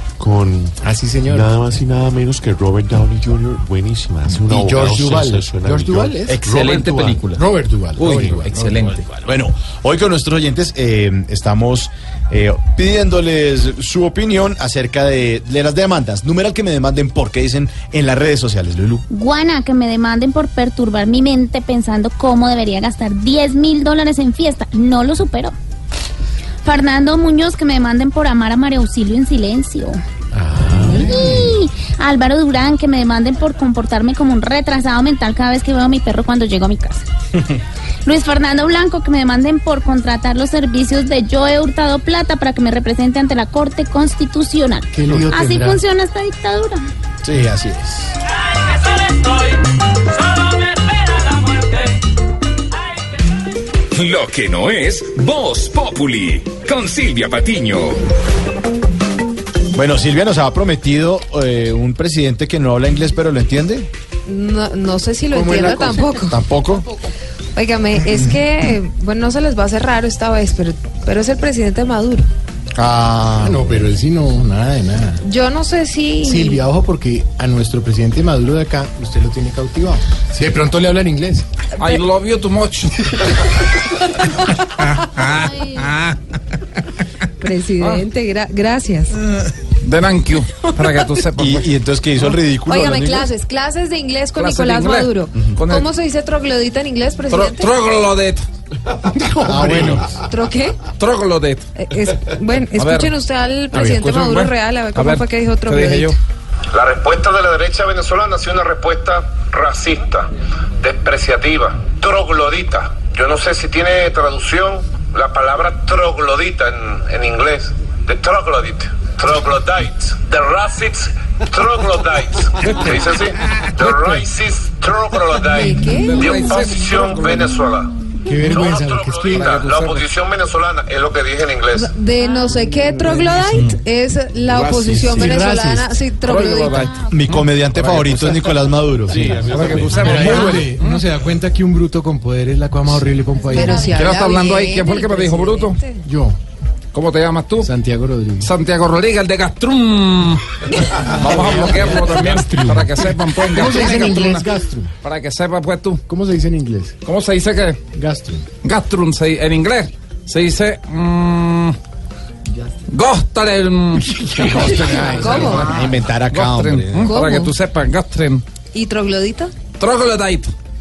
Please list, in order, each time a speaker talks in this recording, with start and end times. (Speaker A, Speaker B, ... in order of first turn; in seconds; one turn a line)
Speaker A: 0.2-6.3
Speaker B: 0.8-1.5
Speaker B: 4.3-8.8
Speaker C: 6.3-6.8
Speaker D: 6.6-7.0
Speaker D: 8.0-9.0
Speaker A: 8.0-8.5
Speaker C: 9.1-19.0
Speaker E: 19.1-25.5
Speaker E: 26.6-30.0
Speaker B: 30.3-31.5
Speaker E: 30.8-37.0
Speaker E: 38.0-46.8
Speaker B: 44.9-45.8
Speaker C: 47.2-48.1
Speaker F: 53.9-58.0
Speaker C: 59.7-63.9
Speaker G: 64.3-66.4
Speaker B: 65.3-66.0
Speaker C: 66.3-66.8
Speaker G: 67.5-72.3
Speaker C: 72.8-73.8
Speaker B: 73.4-75.2
Speaker G: 75.2-76.6
Speaker B: 76.2-81.4
Speaker D: 81.8-82.9
Speaker E: 85.3-85.8
Speaker G: 87.4-89.1
Speaker D: 89.8-91.7
Speaker C: 91.3-93.3
Speaker G: 92.7-97.7
Speaker D: 94.3-95.9
Speaker D: 97.3-98.4
Speaker G: 99.4-100.8
Speaker B: 99.4-100.0
Speaker C: 99.6-100.0
Speaker D: 101.0-101.6
Speaker G: 101.8-106.2
Speaker D: 102.8-103.1
Speaker D: 103.7-106.2
Speaker H: 106.7-110.3
Speaker H: 110.8-127.9
Speaker G: 125.6-126.5
Speaker D: 126.2-127.5
Speaker B: 128.2-129.6
Speaker H: 128.4-131.9
Speaker D: 129.4-130.1
Speaker G: 131.8-137.0
Speaker E: 132.2-132.6
Speaker B: 134.9-136.0
Speaker D: 136.3-136.8
Speaker E: 136.8-137.1
Speaker C: 137.1-140.7
Speaker B: 139.1-144.0
Speaker A: 139.4-139.8
Speaker D: 139.5-140.2
Speaker G: 143.5-146.1
Speaker E: 143.5-143.9
Speaker D: 143.9-145.8
Speaker B: 146.0-146.4
Speaker D: 146.9-147.7
Speaker B: 147.6-148.5
Speaker D: 148.4-150.4
Speaker B: 151.1-154.9
Speaker D: 151.2-154.5
Speaker D: 155.0-156.0
Speaker B: 156.1-156.9
Speaker D: 157.0-157.8
Speaker B: 157.9-158.4
Speaker D: 158.6-161.8
Speaker D: 162.9-168.4
Speaker B: 164.2-165.7
Speaker G: 165.2-165.7
Speaker C: 165.4-167.2
Speaker G: 167.0-167.6
Speaker G: 168.7-169.5
Speaker D: 169.8-170.5